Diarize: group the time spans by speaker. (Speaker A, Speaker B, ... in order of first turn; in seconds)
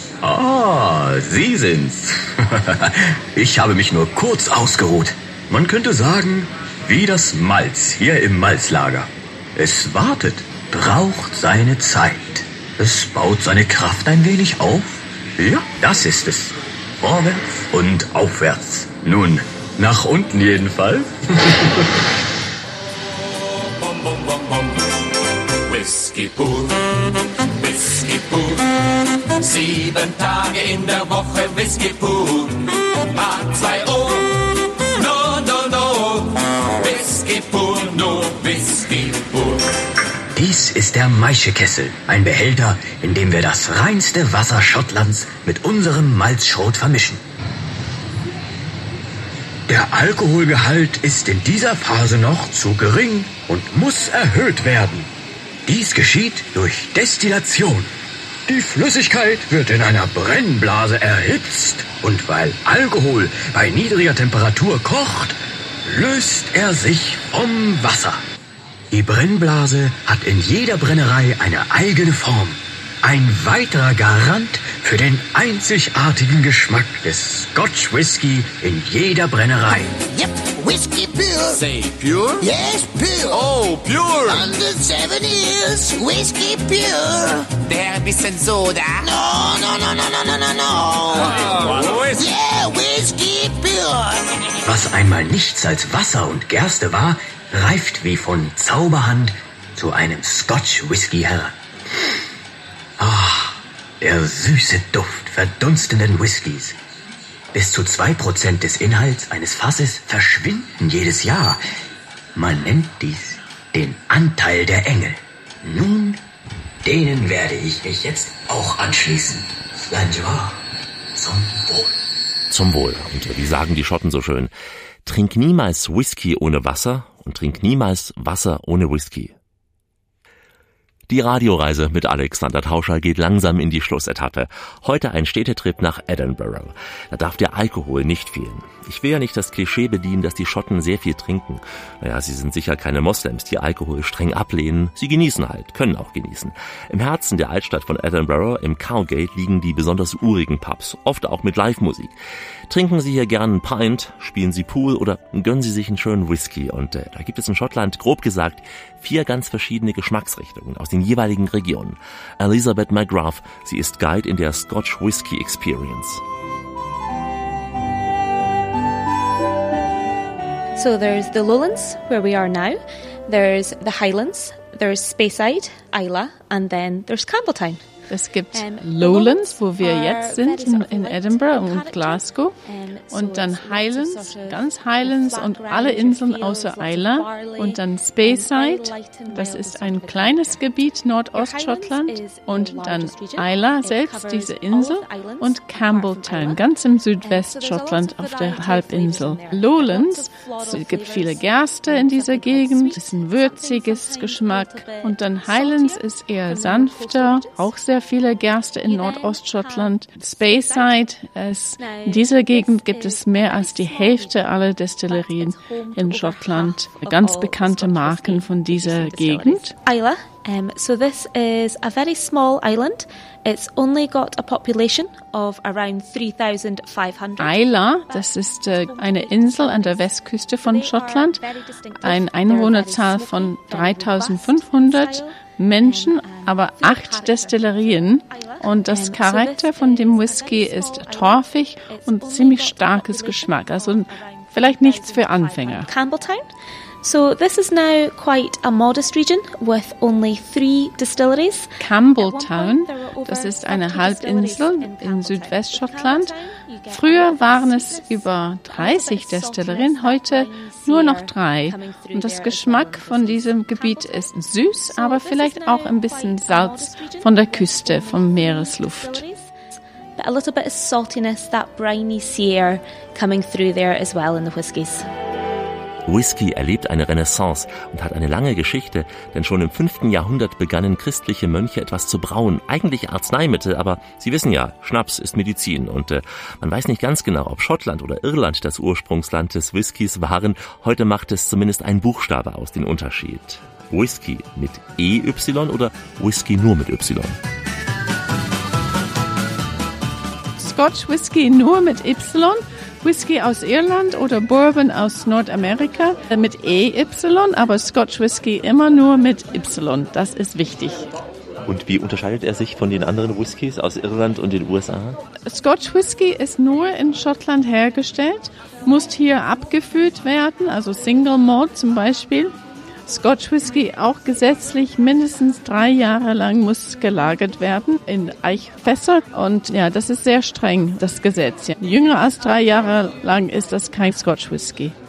Speaker A: 0.2-21.9, 40.4-47.2, 49.7-55.1, 55.7-57.9, 58.5-68.2, 68.9-80.0, 94.7-101.5, 103.0-106.8, 107.5-111.6, 112.3-116.2, 116.8-120.6, 121.2-122.0
Speaker B: 23.9-24.6, 25.7-26.8, 27.6-28.6, 29.4-34.3, 35.0-39.6, 81.6-82.5, 83.3-84.5, 91.2-92.3
Speaker C: 80.1-81.6, 82.4-83.6, 84.2-94.2
Speaker D: 122.5-124.5, 125.0-129.3, 131.1-152.1, 152.7-166.2, 276.1-297.4, 311.7-315.2
Speaker E: 170.8-177.8, 178.5-196.6, 197.2-207.7, 208.8-211.1, 211.8-246.5, 247.0-269.5, 270.2-275.1
Speaker F: 178.1-182.6, 183.1-219.7, 227.4-231.4, 232.0-245.9, 251.8-256.3, 256.9-269.2, 300.6-311.1, 315.5-322.5, 323.1-334.9